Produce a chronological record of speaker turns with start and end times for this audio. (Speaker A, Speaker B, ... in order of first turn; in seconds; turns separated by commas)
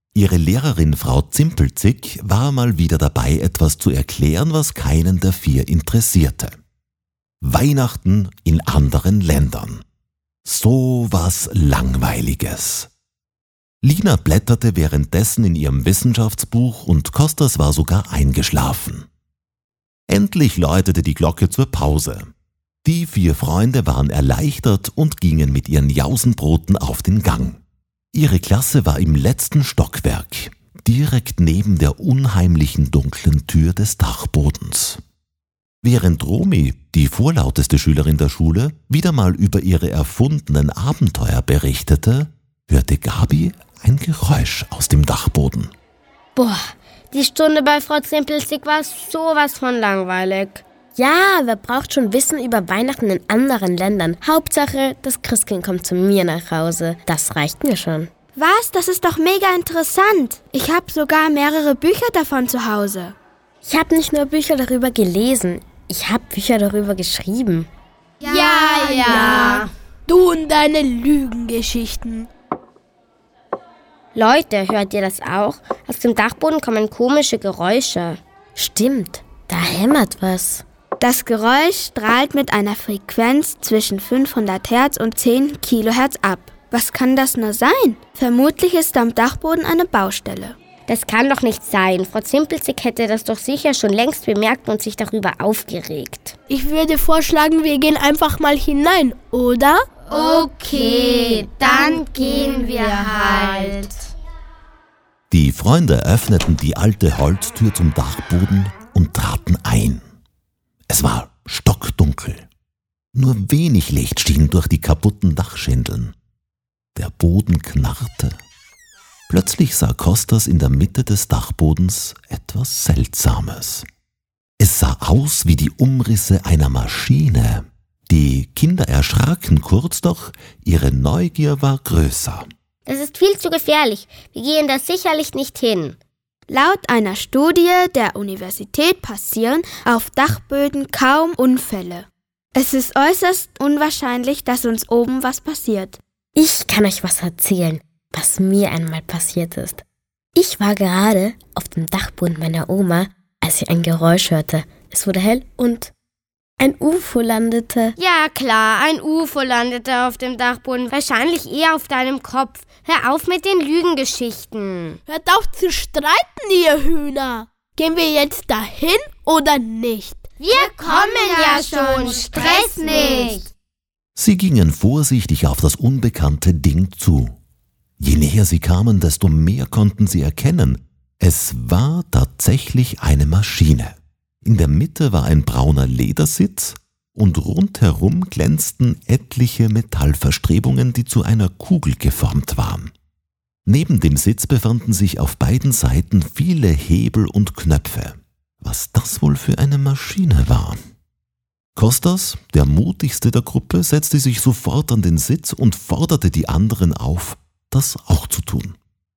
Speaker A: 0.1-6.5, Speaker A: 7.4-9.8, Speaker A: 10.4-12.9, Speaker A: 13.8-19.1, Speaker A: 20.1-22.3, Speaker A: 22.8-27.6, Speaker A: 28.1-35.0, Speaker A: 35.8-45.7, Speaker B: 46.4-50.6, Speaker C: 51.0-58.1, Speaker D: 58.4-63.1, Speaker C: 63.6-67.7, Speaker E: 68.2-72.3, Speaker B: 68.8-69.7, Speaker B: 74.2-78.2, Speaker C: 78.6-80.6, Speaker D: 81.0-90.6, Speaker B: 90.9-96.3, Speaker E: 96.5-99.8, Speaker B: 100.1-104.1, Speaker A: 105.3-110.0, Speaker A: 110.9-112.5, Speaker A: 113.1-116.2, Speaker A: 117.0-118.3, Speaker A: 119.3-123.9, Speaker A: 124.6-132.5, Speaker B: 132.9-136.0, Speaker D: 136.5-146.0, Speaker C: 146.4-149.8, Speaker C: 150.4-155.9, Speaker C: 156.6-158.0, Speaker B: 158.0-165.0, Speaker E: 165.1-170.2, Speaker B: 170.4-173.4, Speaker A: 174.2-177.3, Speaker A: 178.0-192.9, Speaker A: 193.7-200.8, Speaker A: 201.8-208.8